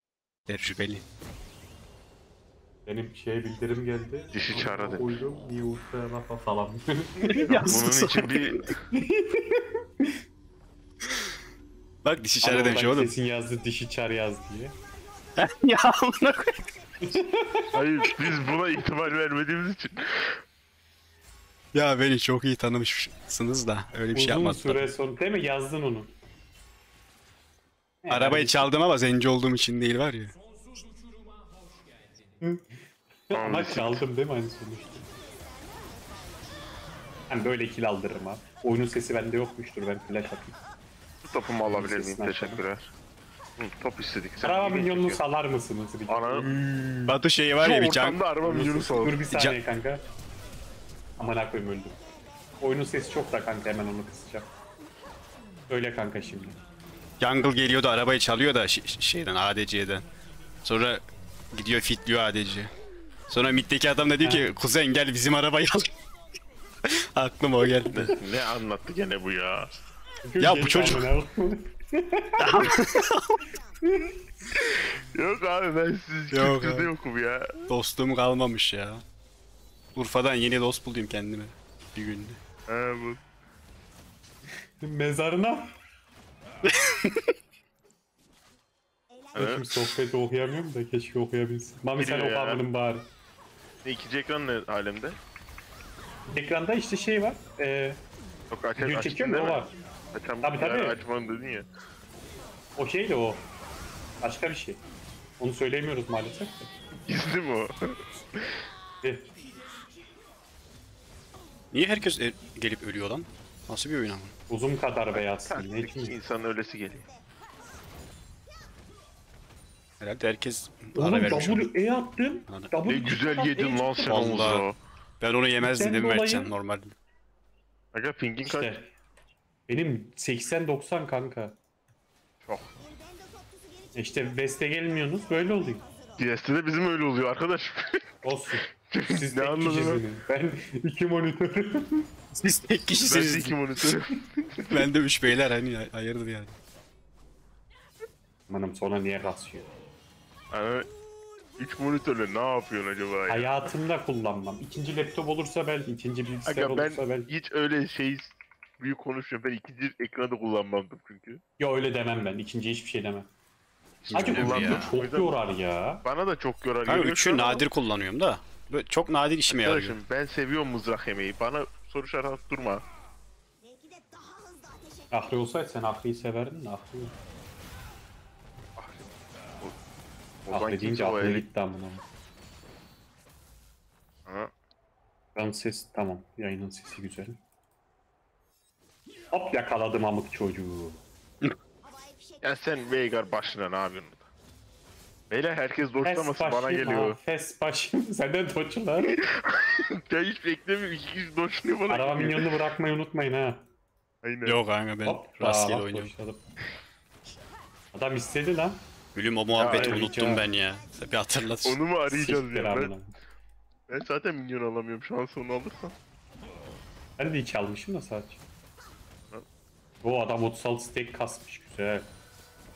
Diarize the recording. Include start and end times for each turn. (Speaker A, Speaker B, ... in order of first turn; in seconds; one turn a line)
Speaker A: 0.5-1.0
Speaker B: 2.9-7.8
Speaker C: 4.3-5.2
Speaker A: 7.2-8.5
Speaker C: 7.5-8.8
Speaker B: 8.9-10.1
Speaker A: 12.0-13.1
Speaker B: 12.4-14.7
Speaker A: 15.4-16.6
Speaker B: 17.0-17.7
Speaker C: 17.7-20.4
Speaker A: 21.7-24.9
Speaker B: 24.1-26.1
Speaker B: 28.0-28.7
Speaker A: 28.1-30.3
Speaker B: 32.4-32.7
Speaker B: 33.3-35.1
Speaker C: 33.3-34.0
Speaker B: 37.3-40.6
Speaker C: 41.2-42.9
Speaker B: 41.7-42.6
Speaker C: 43.6-45.2
Speaker B: 44.4-47.2
Speaker C: 46.1-46.5
Speaker A: 47.1-48.2
Speaker C: 47.6-49.2
Speaker B: 48.4-50.0
Speaker A: 49.3-49.6
Speaker B: 51.2-52.0
Speaker B: 52.6-54.5
Speaker B: 55.7-56.6
Speaker A: 57.2-60.1
Speaker A: 60.6-62.7
Speaker A: 63.3-65.9
Speaker B: 64.2-64.5
Speaker A: 66.9-68.2
Speaker C: 67.9-69.7
Speaker B: 70.2-72.7
Speaker A: 70.4-71.1
Speaker A: 72.4-73.4
Speaker B: 73.8-74.2
Speaker C: 74.6-77.5
Speaker A: 76.3-76.9
Speaker A: 77.7-79.0
Speaker A: 80.0-82.4
Speaker C: 82.7-83.2
Speaker B: 84.8-85.8
Speaker A: 86.7-87.2
Speaker B: 89.3-93.1
Speaker C: 89.3-89.7
Speaker C: 92.0-92.6
Speaker C: 93.8-95.2
Speaker B: 96.3-98.0
Speaker C: 98.5-99.6
Speaker B: 98.8-99.7
Speaker C: 100.1-101.7
Speaker B: 100.4-101.0
Speaker B: 102.8-103.5
Speaker B: 104.2-104.8
Speaker B: 105.4-106.7
Speaker C: 107.1-108.5
Speaker A: 111.7-114.3
Speaker B: 114.5-116.2
Speaker C: 115.1-117.1
Speaker A: 120.0-121.7
Speaker B: 121.0-124.6
Speaker C: 122.8-124.8
Speaker A: 124.0-124.7
Speaker A: 125.2-126.9
Speaker B: 125.6-126.5
Speaker C: 127.9-128.7
Speaker B: 128.4-128.9
Speaker B: 129.7-131.6
Speaker C: 132.4-132.7
Speaker B: 133.9-135.9
Speaker C: 136.2-138.1
Speaker B: 138.2-142.1
Speaker C: 138.8-140.1
Speaker A: 142.3-143.6
Speaker C: 143.0-144.9
Speaker A: 144.7-146.6
Speaker B: 148.5-149.7
Speaker C: 150.5-150.9
Speaker C: 151.6-153.7
Speaker B: 153.3-157.3
Speaker C: 156.5-161.4
Speaker B: 161.6-163.3
Speaker C: 164.0-165.4
Speaker A: 164.1-165.0
Speaker B: 164.1-166.1
Speaker C: 166.1-167.7
Speaker A: 166.9-170.0
Speaker C: 169.5-172.8
Speaker B: 175.1-177.1
Speaker C: 178.8-179.1
Speaker C: 180.4-181.5
Speaker B: 180.5-182.1
Speaker C: 184.3-184.5
Speaker B: 185.3-187.4
Speaker B: 189.3-191.0
Speaker C: 192.4-194.3
Speaker C: 195.3-197.2
Speaker B: 196.0-199.2
Speaker C: 199.0-202.7
Speaker B: 201.9-203.6
Speaker C: 204.2-204.6
Speaker A: 204.4-206.1
Speaker B: 205.1-206.4
Speaker B: 207.9-208.8
Speaker A: 209.2-211.8
Speaker C: 209.6-210.1
Speaker B: 209.7-210.5
Speaker C: 211.6-213.0
Speaker B: 212.1-213.1
Speaker C: 213.9-215.9
Speaker B: 217.2-218.4
Speaker B: 220.0-222.1